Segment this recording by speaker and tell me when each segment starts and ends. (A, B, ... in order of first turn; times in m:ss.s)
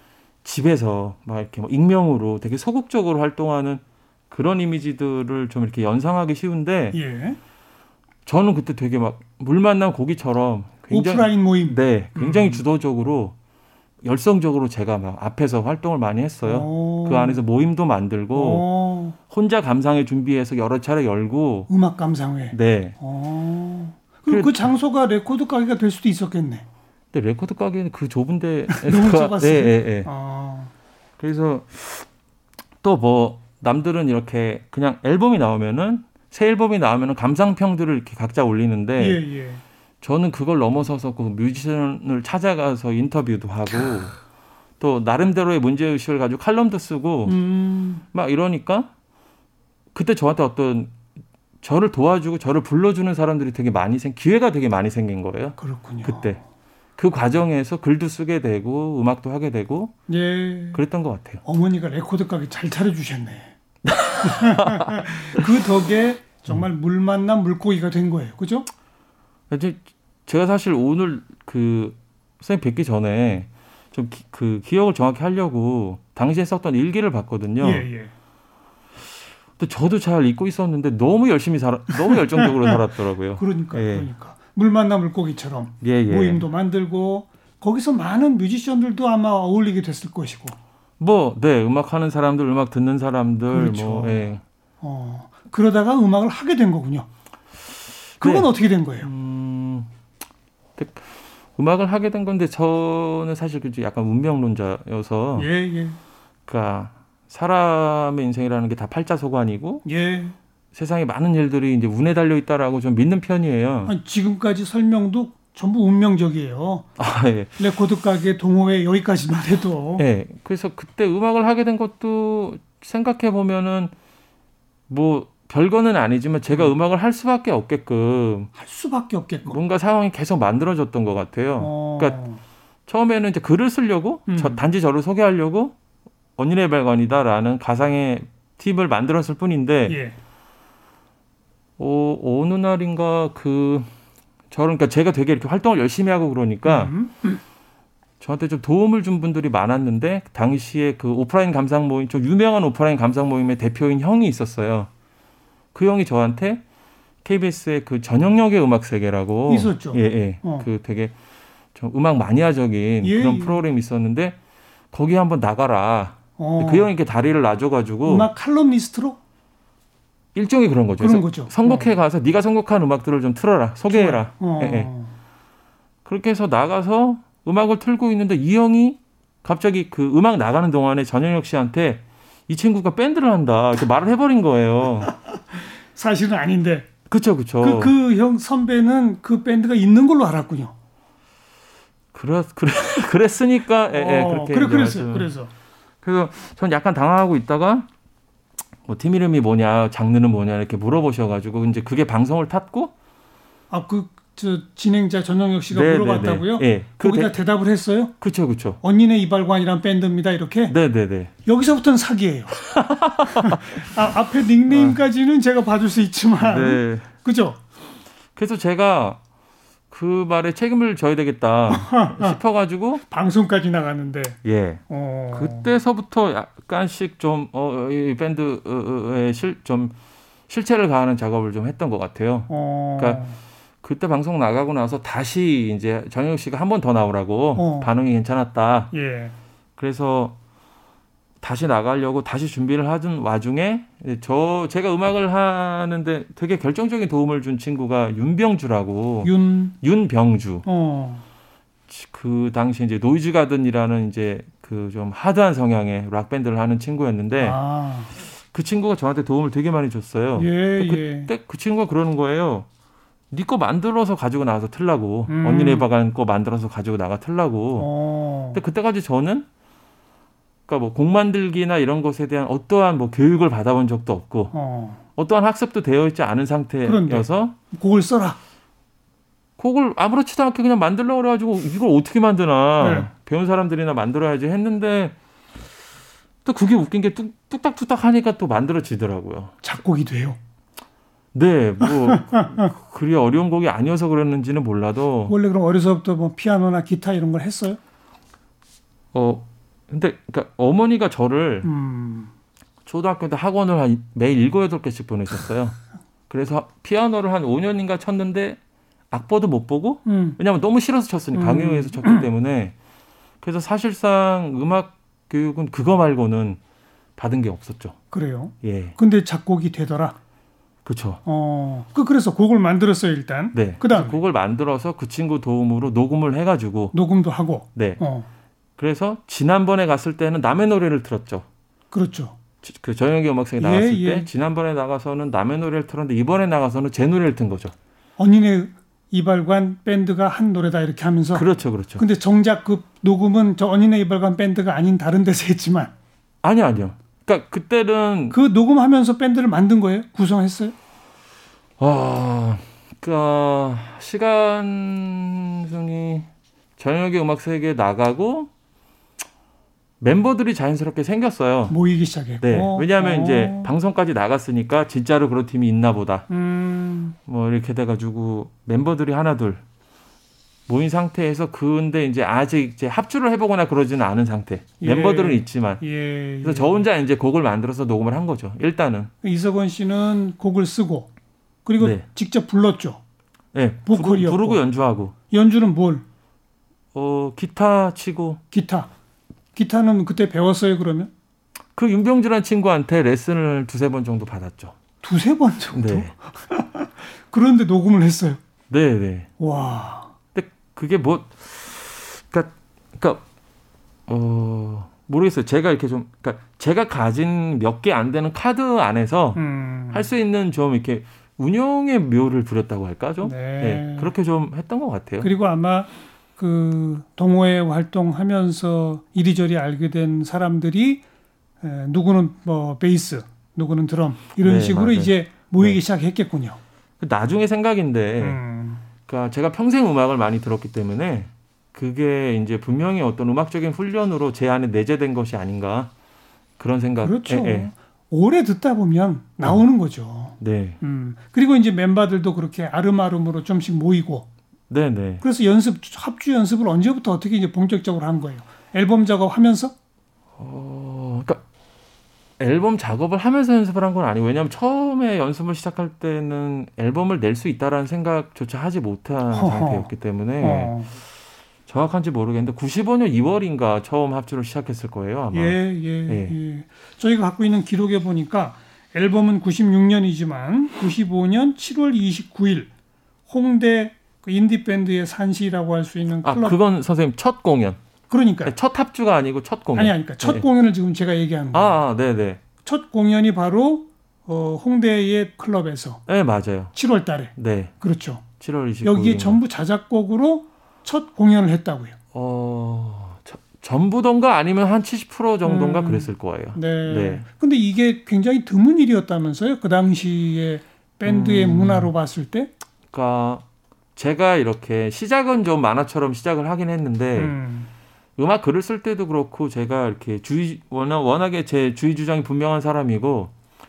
0:00.4-0:07.0 A
0:06.9-0:07.4 B
0:08.2-0:13.3 A
0:10.9-0:12.6 B
0:14.0-0:18.6 A
0:16.4-0:17.4 B
0:18.3-0:19.2 B
0:19.3-0:21.7 A
0:21.7-0:26.6 B
0:22.5-0:23.0 A
0:24.3-0:24.7 A
0:27.1-0:30.1 A
0:28.7-0:30.7 B
0:31.2-0:32.1 A
0:32.8-0:39.2 A
0:39.0-0:39.6 B
0:40.0-0:44.2 A
0:44.8-0:47.3 A
0:47.2-0:48.0 B
0:48.1-0:48.9 A
0:49.9-0:50.9 A
0:51.6-0:56.4 A
0:55.6-0:56.4 B
0:57.0-0:59.9 A
1:00.1-1:00.8 B
1:00.7-1:01.4 A
1:01.4-1:03.5 B
1:03.8-1:05.4 A
1:04.2-1:08.7 B
1:09.5-1:17.9 A
1:17.6-1:18.1 B
1:19.6-1:24.1 A
1:22.4-1:22.8 B
1:23.4-1:30.6 B
1:25.8-1:26.4 A
1:31.0-1:34.4 A
1:33.5-1:34.3 B
1:34.8-1:37.1 B
1:38.2-1:38.5 A
1:38.2-1:39.1 B
1:39.0-1:39.9 A
1:40.8-1:45.5 A
1:45.4-1:46.0 B
1:46.5-1:49.8 A
1:49.8-1:50.4 B
1:50.7-1:53.9 A
1:53.8-1:56.9 B
1:57.0-1:57.6 A
1:57.6-2:00.0 B
2:00.0-2:03.9 A
2:04.9-2:08.5 A
2:08.5-2:09.6 B
2:09.5-2:12.2 A
2:11.6-2:12.4 B
2:12.9-2:15.8 A
2:14.3-2:14.6 B
2:16.4-2:20.0 A
2:19.9-2:20.2 B
2:21.8-2:23.9 A
2:24.5-2:26.9 A
2:26.6-2:27.4 B
2:28.2-2:34.9 A
2:35.7-2:36.6 A
2:37.2-2:41.1 A
2:39.5-2:40.7 B
2:41.7-2:44.4 A
2:43.0-2:43.6 B
2:44.9-2:48.3 A
2:46.4-2:46.9 B
2:48.0-2:49.2 B
2:50.3-2:54.9 A
2:51.0-2:51.9 B
2:53.9-2:55.1 B
2:56.0-3:05.1 A
3:05.1-3:06.9 B
3:07.1-3:08.0 A
3:07.6-3:10.7 B
3:12.1-3:15.3 A
3:13.9-3:15.5 B
3:16.0-3:17.9 A
3:18.8-3:22.9 A
3:23.7-3:28.1 B
3:25.7-3:27.3 A
3:28.2-3:28.8 A
3:28.8-3:30.7 B
3:30.7-3:31.3 A
3:31.4-3:32.6 B
3:32.5-3:33.9 A
3:33.2-3:37.6 B
3:34.7-3:35.0 A
3:36.4-3:37.1 A
3:38.4-3:39.2 A
3:39.9-3:43.0 A
3:41.7-3:42.4 B
3:43.1-3:45.7 B
3:44.4-3:49.9 A
3:50.5-3:53.2 A
3:52.5-3:53.4 B
3:53.8-3:58.9 A
3:57.6-3:57.9 B
3:58.9-3:59.3 B
3:59.8-4:00.4 A
4:01.4-4:10.6 A
4:09.2-4:09.8 B
4:10.6-4:11.2 B
4:11.9-4:17.6 A
4:17.4-4:18.1 B
4:18.3-4:22.7 A
4:20.4-4:21.3 B
4:23.3-4:27.9 A
4:25.3-4:25.8 B
4:27.8-4:28.6 B
4:28.5-4:29.4 A
4:30.7-4:34.5 A
4:34.5-4:35.0 B
4:35.2-4:37.6 A
4:36.8-4:38.4 B
4:39.6-4:45.1 A
4:42.8-4:43.1 B
4:46.4-4:49.5 A
4:49.6-4:50.4 B
4:51.3-4:55.3 A
4:52.0-4:52.7 B
4:55.3-4:57.8 B
4:59.1-5:01.7 A
5:01.6-5:02.3 B
5:02.8-5:05.8 A
5:06.3-5:08.6 A
5:09.1-5:12.7 A
5:10.0-5:10.4 B
5:11.3-5:12.3 B
5:13.4-5:16.6 A
5:17.2-5:18.0 A
5:18.1-5:20.2 B
5:18.6-5:19.0 A
5:20.8-5:21.2 A
5:21.2-5:24.2 B
5:23.5-5:26.9 A
5:26.9-5:28.3 B
5:27.7-5:28.0 A
5:28.8-5:31.4 A
5:31.9-5:32.4 B
5:32.6-5:37.7 A
5:33.6-5:34.3 B
5:38.2-5:41.4 B
5:41.3-5:42.0 A
5:42.0-5:45.9 B
5:46.4-5:48.4 A
5:48.3-5:50.7 B
5:51.8-5:58.5 A
6:00.0-6:01.8 A
6:01.7-6:03.7 B
6:02.4-6:06.3 A
6:06.3-6:07.2 B
6:07.2-6:09.6 A
6:10.7-6:15.8 A
6:14.8-6:16.8 B
6:16.4-6:19.1 A
6:19.2-6:21.1 B
6:21.6-6:23.0 B
6:21.8-6:22.0 A
6:23.5-6:25.1 A
6:23.8-6:24.6 B
6:25.3-6:26.0 B
6:26.9-6:28.4 A
6:28.5-6:28.9 B
6:29.6-6:31.1 B
6:31.7-6:34.8 A
6:35.0-6:38.4 B
6:35.7-6:36.1 A
6:38.7-6:39.3 A
6:39.4-6:40.1 B
6:40.3-6:43.2 A
6:44.1-6:49.4 A
6:49.3-6:50.1 B
6:49.9-6:55.3 A
6:53.2-6:54.1 B
6:55.2-7:01.0 B
7:01.6-7:06.6 B
7:04.4-7:05.8 A
7:07.0-7:08.4 A
7:08.2-7:08.8 B
7:09.0-7:15.9 A
7:16.6-7:17.7 A
7:17.0-7:24.3 B
7:20.4-7:20.8 A
7:24.7-7:25.2 A
7:25.2-7:29.7 B
7:30.4-7:31.4 A
7:32.4-7:40.7 A
7:39.3-7:40.9 B
7:41.7-7:46.4 A
7:45.3-7:52.7 B
7:53.3-7:56.6 B
7:56.2-7:57.8 A
7:58.1-7:58.6 B
7:58.4-8:00.4 A
7:59.7-8:01.8 B
8:01.5-8:02.4 A
8:02.6-8:06.0 B
8:06.1-8:06.7 A
8:06.7-8:08.2 B
8:07.4-8:07.7 A
8:08.4-8:09.4 A
8:08.8-8:12.0 B
8:12.1-8:17.2 A
8:15.4-8:22.5 B
8:21.0-8:21.9 A
8:22.9-8:23.4 A
8:24.0-8:27.3 A
8:27.2-8:27.7 B
8:28.2-8:33.3 A